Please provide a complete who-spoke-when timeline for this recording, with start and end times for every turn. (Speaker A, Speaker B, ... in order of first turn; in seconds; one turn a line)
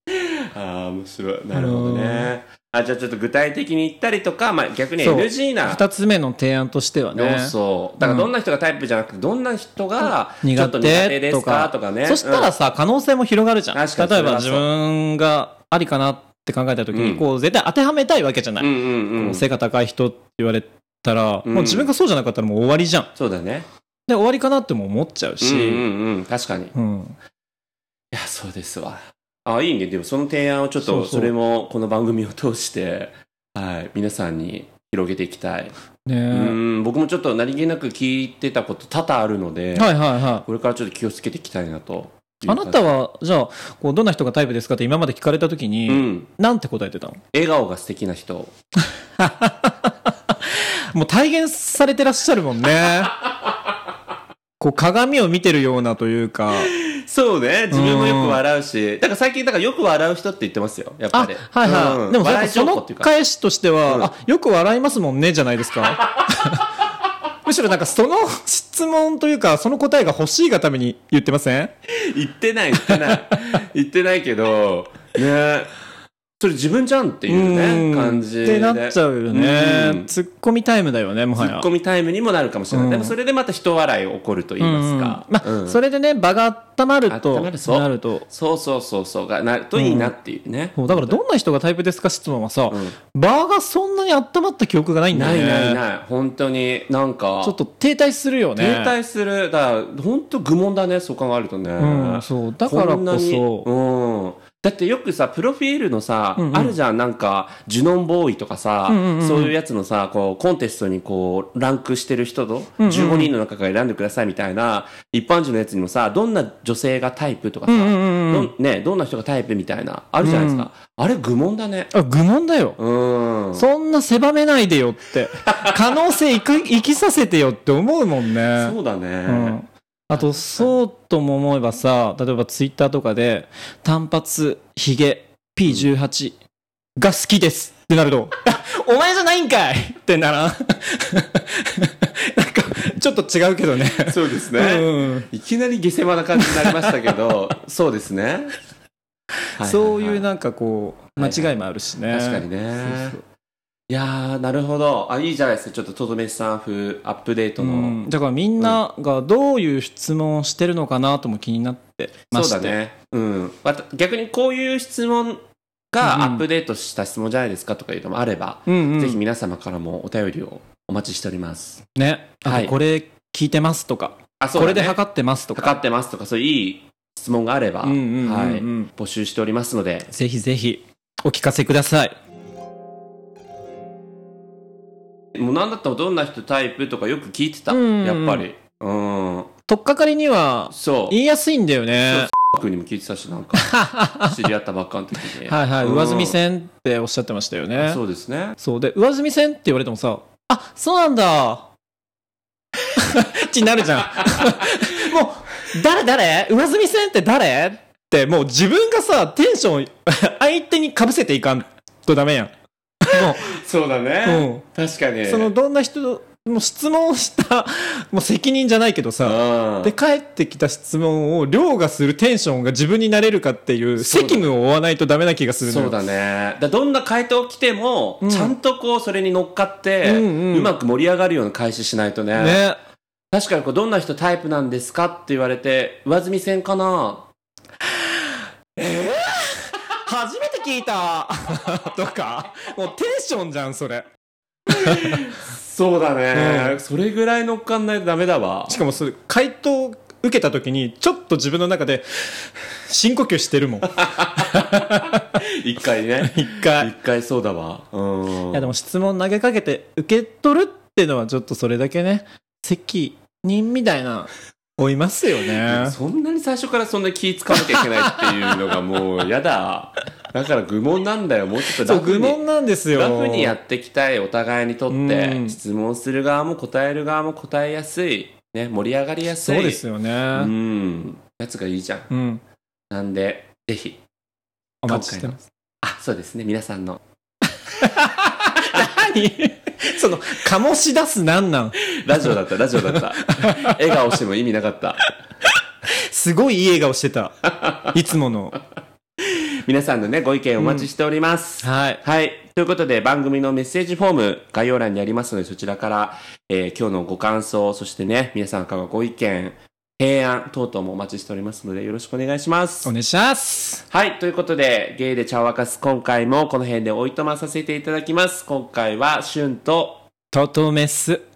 Speaker A: 0.1-5.8
Speaker B: 1.5-2.3
Speaker B: 5.0-8.3
Speaker A: 7.2-12.5
Speaker B: 10.0-23.1
Speaker A: 13.7-14.7
Speaker A: 16.9-17.2
Speaker A: 18.6-19.4
Speaker A: 21.5-21.9
Speaker A: 23.1-23.7
Speaker B: 24.1-25.9
Speaker A: 25.4-26.7
Speaker B: 26.7-27.2
Speaker A: 28.1-35.7
Speaker B: 30.8-31.3
Speaker B: 36.1-36.6
Speaker A: 36.3-42.9
Speaker B: 39.8-40.5
Speaker B: 42.5-47.2
Speaker A: 45.9-46.3
Speaker A: 47.3-48.5
Speaker B: 49.2-49.9
Speaker B: 50.5-53.1
Speaker B: 54.6-56.7
Speaker A: 56.6-63.1
Speaker B: 57.7-58.4
Speaker B: 61.1-66.7
Speaker B: 67.5-71.7
Speaker A: 71.9-75.7
Speaker B: 72.8-73.2
Speaker A: 76.4-80.1
Speaker B: 77.3-81.7
Speaker A: 81.4-85.8
Speaker B: 82.7-83.2
Speaker B: 84.6-88.2
Speaker A: 87.1-91.2
Speaker B: 89.8-90.1
Speaker B: 90.8-95.8
Speaker A: 92.7-93.0
Speaker A: 95.1-97.6
Speaker B: 97.4-99.0
Speaker A: 98.6-121.9
Speaker B: 101.8-103.7
Speaker B: 106.4-106.8
Speaker B: 108.9-109.5
Speaker B: 112.8-113.3
Speaker B: 117.7-118.5
Speaker B: 120.2-120.7
Speaker B: 121.9-122.8
Speaker A: 122.8-123.7
Speaker B: 123.5-128.8
Speaker A: 128.6-129.6
Speaker B: 129.3-136.3
Speaker A: 130.2-130.7
Speaker B: 137.0-145.3
Speaker A: 144.0-148.6
Speaker B: 146.4-146.8
Speaker A: 149.6-150.2
Speaker B: 149.6-153.2
Speaker A: 151.2-151.5
Speaker A: 152.1-153.2
Speaker A: 153.9-158.0
Speaker B: 157.6-162.8
Speaker A: 162.3-171.8
Speaker B: 166.0-166.4
Speaker B: 168.7-169.2
Speaker B: 172.0-175.8
Speaker A: 172.4-172.8
Speaker A: 174.4-175.0
Speaker A: 175.6-180.1
Speaker B: 177.8-178.9
Speaker B: 180.1-182.1
Speaker A: 185.3-189.5
Speaker B: 187.7-188.4
Speaker B: 189.7-192.3
Speaker A: 190.7-191.2
Speaker A: 192.1-196.4
Speaker B: 193.6-194.3
Speaker B: 195.4-198.0
Speaker A: 197.8-198.6
Speaker B: 198.6-201.7
Speaker B: 203.0-212.5
Speaker B: 213.0-213.4
Speaker A: 213.2-215.5
Speaker B: 214.2-214.6
Speaker B: 215.3-225.9
Speaker A: 219.2-219.9
Speaker A: 224.0-224.5
Speaker A: 225.6-232.6
Speaker B: 228.2-228.5
Speaker B: 230.0-230.7
Speaker B: 232.4-232.8
Speaker A: 233.3-237.3
Speaker B: 238.8-244.1
Speaker A: 244.7-248.8
Speaker B: 244.8-245.2
Speaker B: 246.3-246.8
Speaker B: 248.7-255.2
Speaker A: 254.0-258.7
Speaker B: 256.2-256.9
Speaker B: 258.5-266.0
Speaker A: 265.6-272.4
Speaker B: 267.7-268.3
Speaker B: 271.8-273.6
Speaker A: 272.9-279.8
Speaker B: 274.9-275.6
Speaker B: 279.4-280.5
Speaker A: 280.3-282.1
Speaker B: 282.1-282.4
Speaker A: 282.9-284.0
Speaker B: 284.8-285.5
Speaker A: 284.9-287.0
Speaker B: 287.7-293.8
Speaker A: 291.9-295.0
Speaker B: 295.9-298.6
Speaker A: 297.6-297.9
Speaker A: 299.6-312.9
Speaker B: 300.6-300.9
Speaker B: 301.6-302.0
Speaker B: 312.9-313.8
Speaker A: 313.9-320.1
Speaker B: 320.3-321.2